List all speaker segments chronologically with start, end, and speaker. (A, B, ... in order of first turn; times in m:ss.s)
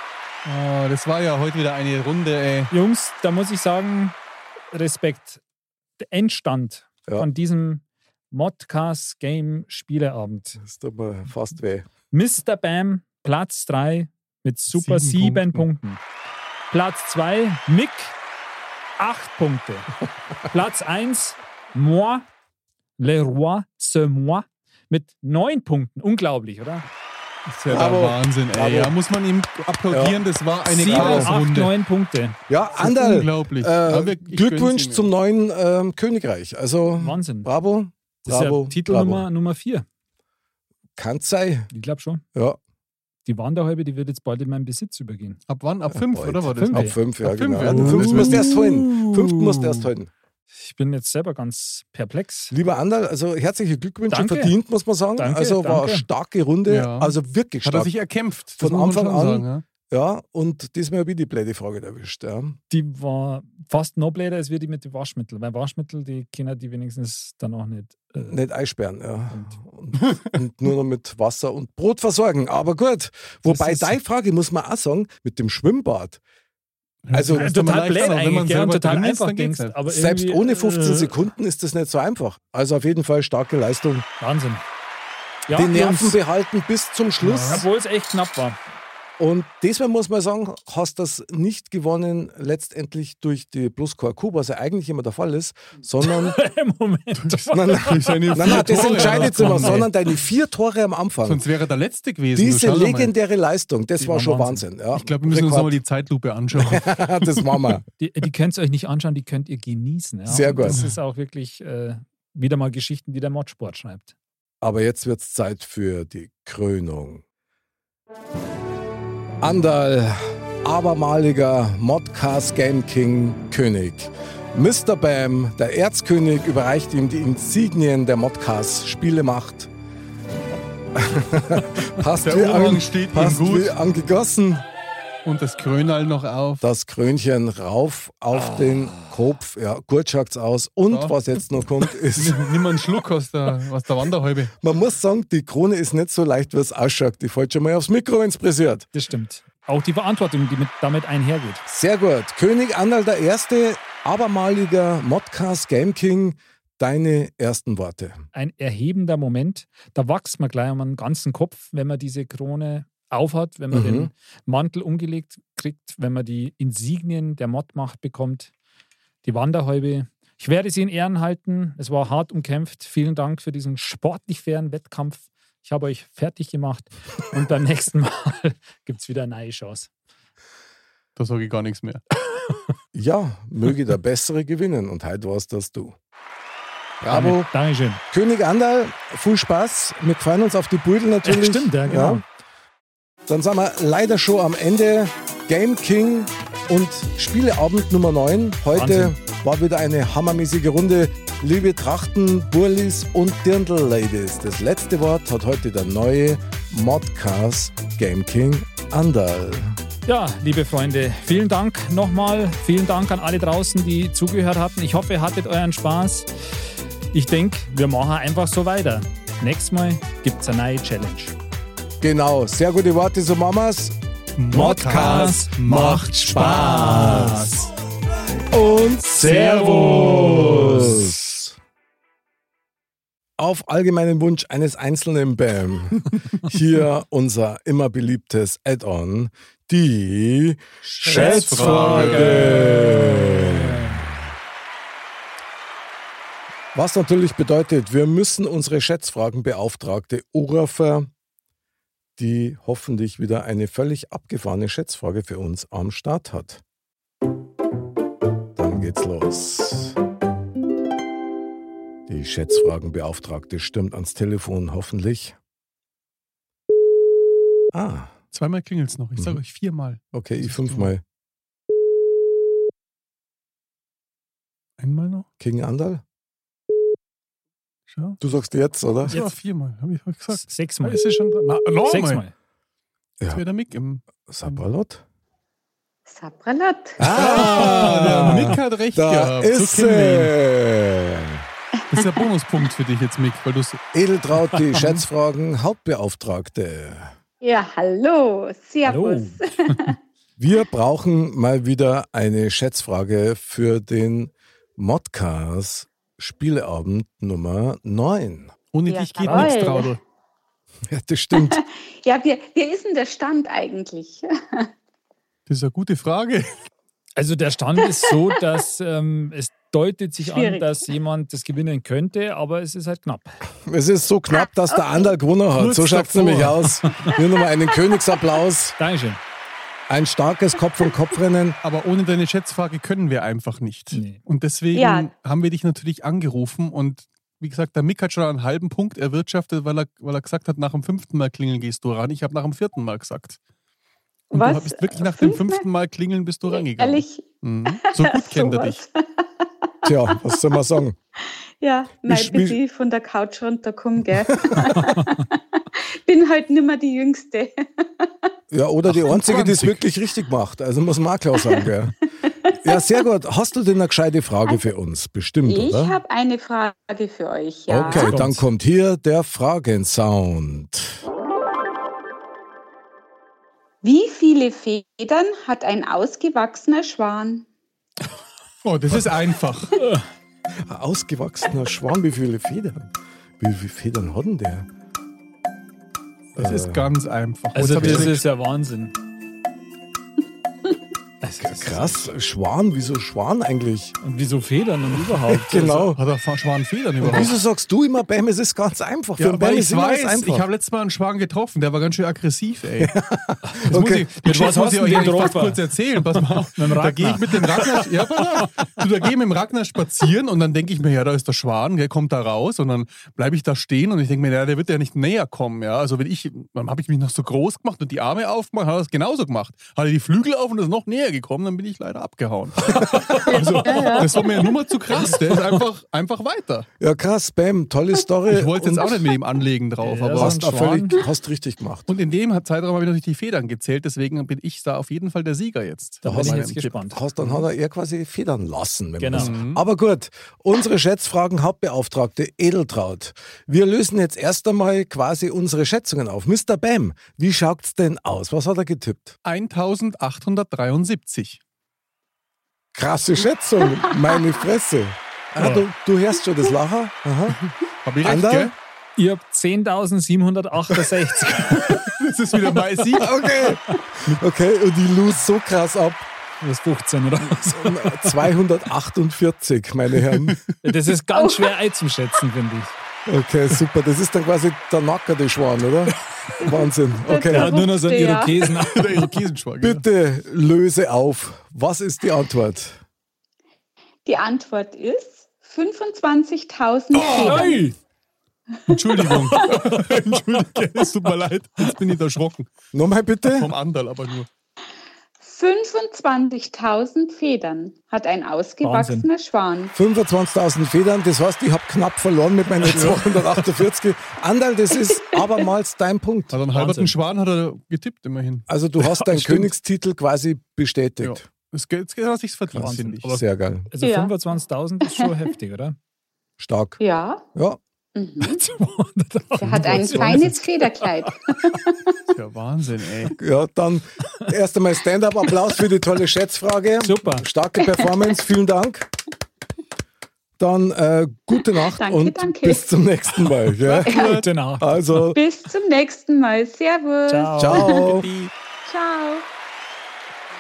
0:00.4-0:02.7 A
0:02.7-0:04.2 B
0:04.7-0:05.4 B
0:06.0-0:10.6 B
0:10.6-0:11.9 C
0:12.1-0:16.0 B
0:14.8-0:15.7 A
0:16.7-0:18.2 B
0:19.0-0:19.9 B
0:20.5-0:22.3 B
0:23.0-0:26.8 B
0:27.5-0:31.7 A
0:27.7-0:28.2 C
0:28.6-0:28.9 B
0:29.9-0:30.2 C
0:30.7-0:32.4 B
0:30.9-0:31.3 C
0:32.5-0:39.3 C
0:32.8-0:35.1 A
0:37.0-0:37.5 B
0:38.3-0:39.9 B
0:41.0-0:41.7 C
0:41.7-0:42.2 B
0:43.3-0:45.4 B
0:45.5-0:48.5 A
0:45.9-0:50.1 C
0:46.6-0:47.0 B
0:47.6-0:49.9 B
0:50.6-0:52.5 B
0:52.5-0:57.9 C
0:54.1-0:54.6 B
0:55.2-0:56.0 B
0:56.7-0:59.6 A
0:58.6-1:02.6 C
1:02.7-1:08.4 B
1:08.2-1:16.2 C
1:09.3-1:09.6 B
1:13.5-1:14.0 B
1:17.1-1:19.8 A
1:17.1-1:17.5 C
1:17.3-1:21.2 B
1:19.9-1:24.1 C
1:24.2-1:24.6 B
1:25.5-1:26.2 B
1:25.5-1:27.6 C
1:27.2-1:27.6 A
1:27.4-1:28.6 B
1:29.2-1:36.4 C
1:36.0-1:39.8 B
1:37.2-1:39.9 A
1:37.5-1:41.4 C
1:41.2-1:43.1 A
1:42.3-1:45.8 C
1:44.0-1:44.6 B
1:44.9-1:47.2 A
1:46.6-1:47.8 C
1:48.0-1:54.1 B
1:50.3-1:50.9 C
1:54.6-1:57.2 C
1:59.4-2:09.7 C
2:10.9-2:14.6 C
2:12.2-2:13.8 A
2:15.2-2:16.6 A
2:16.6-2:22.4 C
2:20.9-2:21.2 A
2:22.1-2:24.5 A
2:24.6-2:28.9 C
2:28.9-2:31.6 B
2:31.7-2:38.2 C
2:38.3-2:48.5 B
2:43.7-2:44.1 C
2:49.2-2:59.9 B
3:01.2-3:02.0 A
3:02.9-3:06.0 C
3:07.0-3:07.5 C
3:07.1-3:08.0 B
3:08.1-3:12.2 C
3:11.2-3:12.2 B
3:13.3-3:29.8 C
3:18.7-3:19.2 B
3:30.1-3:36.3 B
3:37.1-3:41.4 B
3:42.0-3:44.0 C
3:44.4-3:46.8 A
3:44.5-3:47.7 B
3:44.5-3:47.5 C
3:48.5-3:51.6 C
3:49.2-3:51.0 A
3:49.2-3:51.1 B
3:53.4-4:04.2 C
4:00.9-4:04.0 B
4:00.9-4:02.8 A
4:06.7-4:11.1 C
4:12.2-4:16.6 C
4:18.6-4:20.0 C
4:22.1-4:25.4 C
4:27.7-4:28.1 C
4:28.3-4:30.9 A
4:30.1-4:31.0 C
4:34.8-4:35.3 A
4:35.4-4:36.0 C
4:37.9-4:38.2 A
4:38.2-4:39.2 C
4:39.0-4:42.2 A
4:40.3-4:41.0 B
4:41.8-4:42.3 B
4:43.3-4:44.6 A
4:44.3-4:45.0 C
4:46.1-4:47.6 D
4:47.0-4:51.4 C
4:47.0-4:50.4 A
4:47.8-4:48.5 B
4:51.9-4:53.8 A
4:53.9-4:57.1 C
4:54.7-4:55.0 A
4:57.4-5:00.0 D
4:58.8-5:00.0 B
5:00.4-5:08.5 C
5:08.7-5:10.0 A
5:08.9-5:10.0 D
5:09.2-5:09.6 B
5:10.9-5:11.6 C
5:11.3-5:14.7 D
5:15.5-5:16.7 A
5:17.2-5:23.4 B
5:20.2-5:20.9 D
5:23.6-5:28.8 C
5:25.6-5:26.8 A
5:28.8-5:29.2 B
5:29.9-5:31.6 C
5:31.6-5:43.4 A
5:33.9-5:34.2 B
5:34.7-5:35.1 D
5:44.3-5:45.7 D
5:44.3-5:48.8 A
5:46.5-5:50.2 D
5:49.8-5:51.0 C
5:51.2-5:58.1 D
5:52.0-5:52.6 C
5:54.3-5:54.7 C
5:58.5-6:02.0 C
5:58.9-5:59.9 A
6:01.4-6:01.6 D
6:02.3-6:02.6 D
6:02.6-6:06.0 C
6:05.4-6:08.2 D
6:07.7-6:11.1 C
6:07.7-6:08.4 B
6:13.8-6:17.5 D
6:18.6-6:19.8 A
6:20.6-6:24.7 C
6:26.4-6:26.9 C
6:26.4-6:28.2 A
6:27.6-6:29.0 B
6:27.8-6:28.1 C
6:31.2-6:32.1 B
6:31.4-6:34.0 C
6:34.0-6:35.9 B
6:35.2-6:36.0 C
6:35.9-6:37.4 A
6:37.0-6:40.5 C
6:39.2-6:43.0 A
6:42.8-6:44.3 C
6:43.6-7:06.7 A
6:44.2-6:47.9 B
7:02.8-7:04.3 B
7:03.3-7:04.1 D
7:05.1-7:05.6 B
7:06.8-7:09.0 C
7:08.3-7:10.4 A
7:09.8-7:11.0 B
7:10.2-7:11.9 C
7:11.9-7:17.4 A
7:16.0-7:17.0 B
7:16.0-7:16.4 C
7:16.9-7:29.2 C
7:19.0-7:19.3 B
7:19.1-7:19.6 A
7:29.2-7:31.4 A
7:32.7-7:37.4 C
7:35.4-7:35.7 B
7:37.8-7:38.5 A
7:38.0-7:38.5 C
7:39.0-7:41.9 B
7:41.3-7:43.2 A
7:43.0-7:46.1 C
7:46.4-7:48.2 B
7:47.6-7:50.4 C
7:50.6-7:52.7 B
7:51.1-7:51.5 D
7:53.1-7:57.5 C
7:57.0-7:58.5 D
7:57.3-7:59.1 B
7:58.6-7:59.8 A
7:59.6-8:02.8 C
8:04.0-8:07.6 D
8:07.0-8:07.5 A
8:07.0-8:07.8 B
8:08.7-8:12.5 A
8:09.1-8:10.3 B
8:12.7-8:13.5 C
8:13.3-8:14.3 A
8:15.2-8:19.7 D
8:18.6-8:19.1 B
8:19.7-8:26.4 C
8:22.7-8:23.0 A
8:26.3-8:29.5 A
8:26.5-8:27.0 B
8:28.5-8:31.3 C
8:31.0-8:33.1 A
8:32.5-8:33.7 C
8:32.6-8:35.8 B
8:33.8-8:34.1 D
8:36.4-8:36.8 C
8:36.8-8:37.2 D
8:37.3-8:37.6 C
8:38.0-8:38.4 D
8:38.2-8:41.6 B
8:39.4-8:42.0 D
8:39.4-8:40.4 A
8:42.1-8:43.2 A
8:43.2-8:48.9 C
8:46.8-8:47.3 B
8:50.4-8:54.0 C
8:51.6-8:52.6 D
8:53.6-8:54.3 A
8:53.9-8:54.2 D
8:54.0-8:54.9 B
8:54.6-8:55.2 C
8:55.1-8:57.9 D
8:57.1-8:57.9 B
8:57.4-8:58.1 C
8:57.8-8:58.3 A
8:58.7-8:59.3 D